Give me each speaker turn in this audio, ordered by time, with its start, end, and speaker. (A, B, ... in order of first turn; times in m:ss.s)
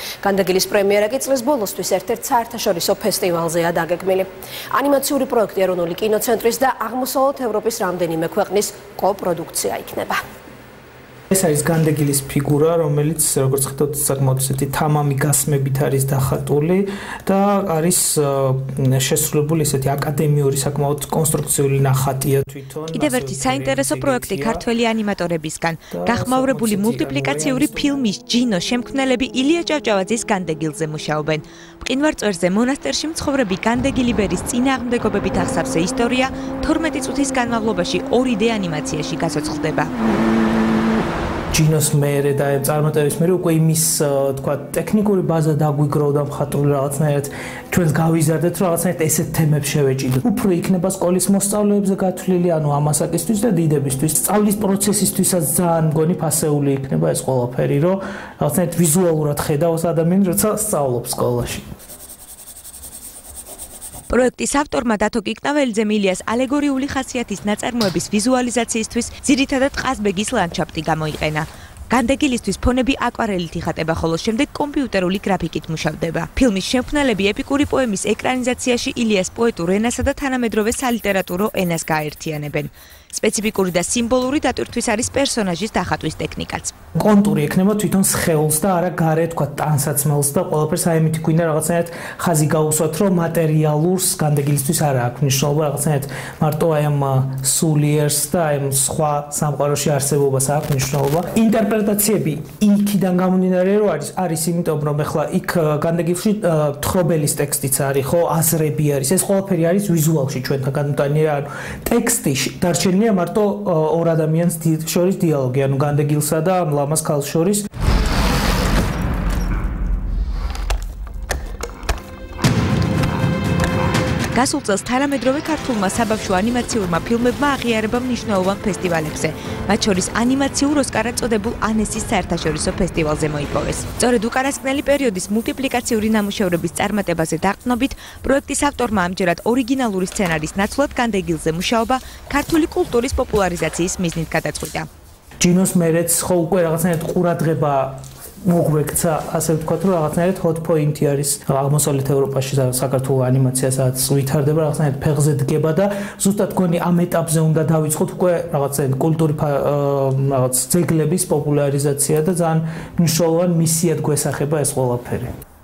0:00.2-0:10.2 A
0:11.3-0:24.6 B
0:22.9-0:39.9 C
0:25.9-0:27.9 B
0:41.5-1:01.7 B
1:04.1-1:26.7 C
1:27.0-1:57.6 B
2:04.3-2:24.9 C
2:25.4-2:45.4 B